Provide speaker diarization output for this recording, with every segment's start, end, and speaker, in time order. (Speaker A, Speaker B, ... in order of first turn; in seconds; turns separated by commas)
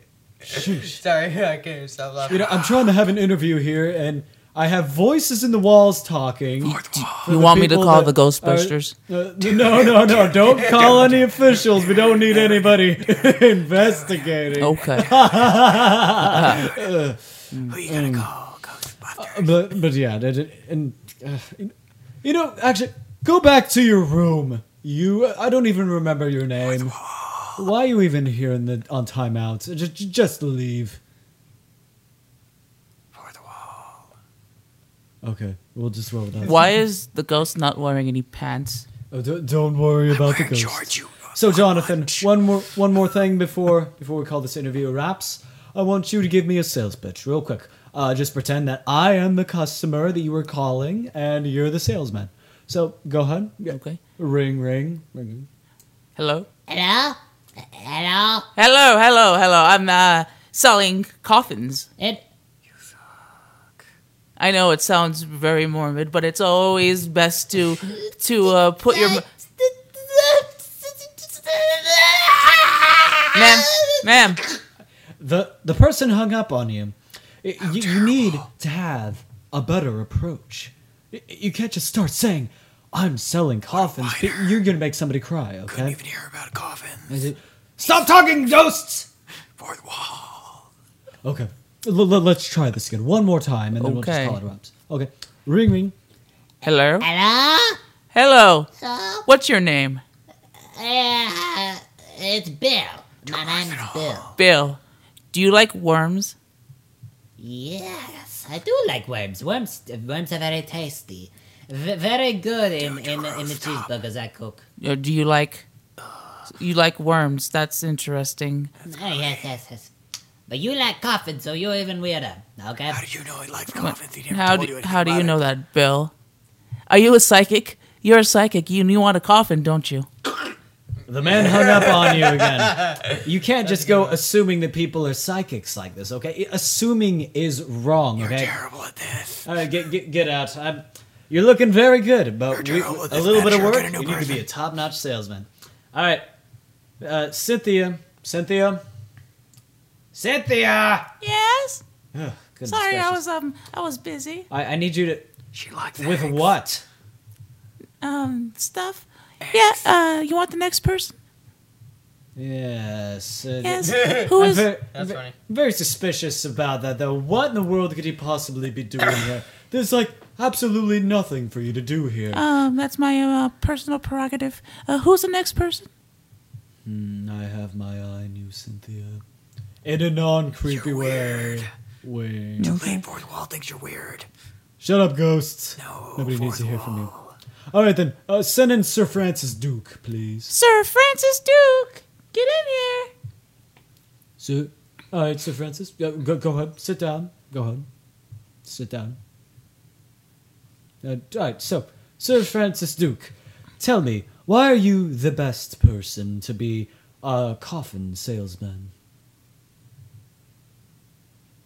Speaker A: 0.4-1.0, Speaker B: 0.5-2.6, Speaker A: 2.3-18.3, Speaker C: 6.6-7.3, Speaker D: 7.0-8.9, Speaker C: 9.6-11.1, Speaker D: 14.6-15.2, Speaker D: 16.2-16.7, Speaker C: 17.7-19.6, Speaker A: 19.2-27.0, Speaker C: 26.7-27.6, Speaker A: 27.5-31.0, Speaker C: 33.1-34.0, Speaker A: 35.2-36.8, Speaker D: 36.4-38.9, Speaker A: 39.1-55.5, Speaker C: 40.1-42.2, Speaker D: 53.7-54.0, Speaker D: 56.2-56.5, Speaker E: 56.7-58.5, Speaker D: 58.6-61.9, Speaker D: 64.4-69.2, Speaker E: 68.9-74.2, Speaker D: 73.3-74.4, Speaker A: 75.2-86.0, Speaker C: 77.8-78.5, Speaker C: 83.7-84.6, Speaker C: 85.7-87.2, Speaker E: 87.1-89.1, Speaker C: 89.6-90.6, Speaker A: 91.2-96.0, Speaker D: 93.8-94.4, Speaker D: 96.6-97.1, Speaker E: 97.0-97.8, Speaker D: 98.1-98.7, Speaker E: 98.8-99.3, Speaker D: 99.3-100.0, Speaker E: 100.7-104.3, Speaker C: 103.3-104.3, Speaker D: 104.4-104.8, Speaker D: 105.3-106.3, Speaker E: 107.4-114.6, Speaker C: 112.8-113.9, Speaker D: 114.8-115.7, Speaker D: 116.5-118.7, Speaker E: 118.8-119.9, Speaker E: 120.5-123.0, Speaker C: 122.9-125.4, Speaker D: 123.8-126.1, Speaker D: 126.9-130.1, Speaker A: 131.1-138.6, Speaker B: 131.3-134.2, Speaker C: 138.2-139.5, Speaker A: 139.5-146.2, Speaker C: 142.5-144.4, Speaker A: 147.0-148.8, Speaker E: 150.1-151.1, Speaker D: 151.2-151.8, Speaker A: 152.1-153.2, Speaker D: 152.7-154.5, Speaker A: 154.5-155.2, Speaker C: 155.5-156.5, Speaker A: 156.0-156.8, Speaker D: 158.0-161.1, Speaker C: 159.4-159.8, Speaker A: 162.4-172.4, Speaker D: 163.6-164.7, Speaker B: 163.8-164.3, Speaker B: 164.9-165.3, Speaker D: 172.3-175.9, Speaker A: 176.8-179.2, Speaker A: 179.8-182.8, Speaker C: 180.7-181.7, Speaker D: 182.6-183.1, Speaker C: 182.7-184.3, Speaker A: 184.8-187.1, Speaker C: 185.8-187.3, Speaker A: 187.7-190.5, Speaker D: 190.5-193.1, Speaker A: 194.4-197.9, Speaker A: 198.7-199.2, Speaker A: 201.0-208.9